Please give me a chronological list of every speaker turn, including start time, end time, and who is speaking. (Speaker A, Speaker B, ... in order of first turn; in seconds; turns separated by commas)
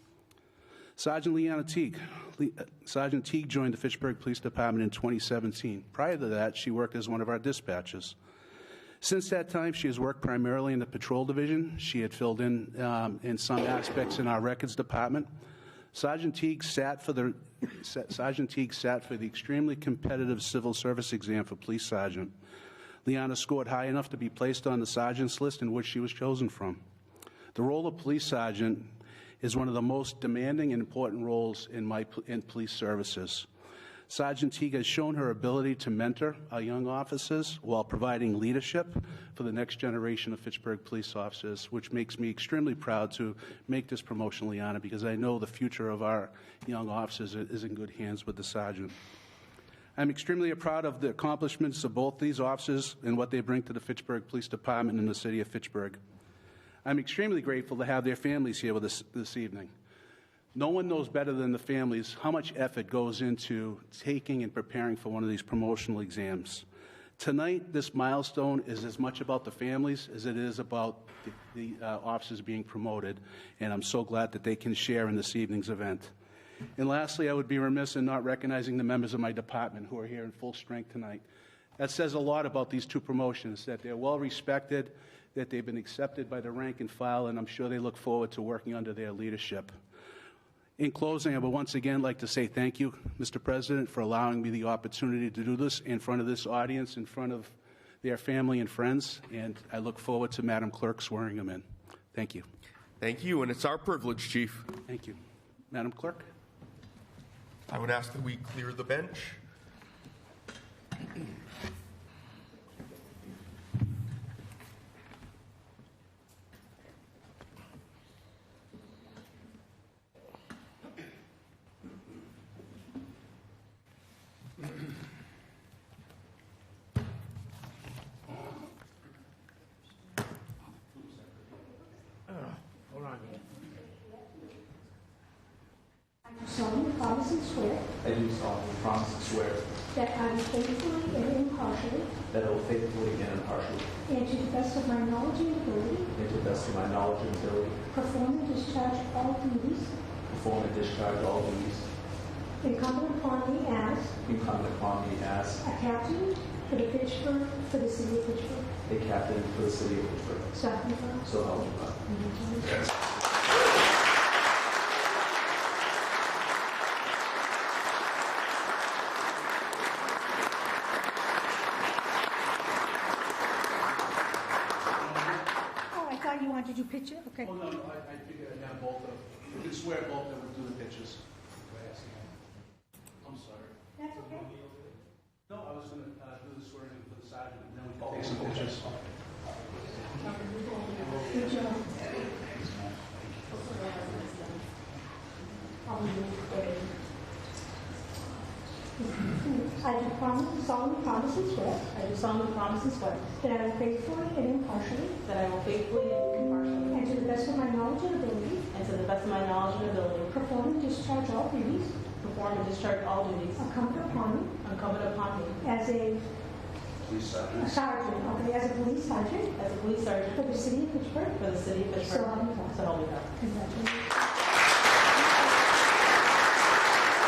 Speaker A: 1.0-8.2, Speaker A: 9.0-15.3, Speaker A: 15.9-22.3, Speaker A: 23.0-26.8, Speaker A: 27.5-33.5, Speaker A: 34.1-49.0, Speaker A: 50.0-56.0, Speaker A: 56.8-59.7, Speaker A: 60.5-66.7, Speaker A: 67.2-76.1, Speaker A: 76.8-81.2, Speaker A: 81.8-89.7, Speaker A: 90.8-102.5, Speaker B: 103.0-104.6, Speaker A: 104.9-105.2, Speaker A: 105.7-106.3, Speaker B: 107.8-109.2, Speaker C: 136.2-137.9, Speaker D: 138.0-139.8, Speaker C: 139.9-142.2, Speaker D: 142.3-143.9, Speaker C: 144.1-146.1, Speaker D: 146.1-147.8, Speaker C: 147.9-149.9, Speaker D: 150.3-151.9, Speaker C: 152.6-154.2, Speaker D: 154.2-155.6, Speaker C: 155.6-158.7, Speaker D: 158.8-162.9, Speaker C: 160.5-161.3, Speaker A: 175.0-175.5, Speaker C: 175.9-177.5, Speaker A: 177.4-182.3, Speaker A: 183.2-183.7, Speaker C: 184.0-184.5, Speaker A: 185.5-188.9, Speaker E: 190.1-191.3, Speaker C: 191.3-191.8, Speaker A: 193.0-193.3, Speaker E: 193.5-194.6, Speaker C: 195.8-196.9, Speaker C: 199.0-201.9, Speaker E: 201.8-203.3, Speaker C: 203.4-205.2, Speaker E: 205.2-207.4, Speaker C: 206.9-208.7, Speaker E: 208.7-210.3, Speaker C: 210.2-212.0, Speaker E: 212.1-213.9, Speaker C: 213.6-214.6, Speaker E: 214.6-215.6, Speaker C: 215.6-216.3, Speaker A: 217.0-217.8, Speaker C: 217.6-219.6, Speaker E: 219.6-223.3, Speaker C: 220.3-221.2, Speaker C: 222.0-224.1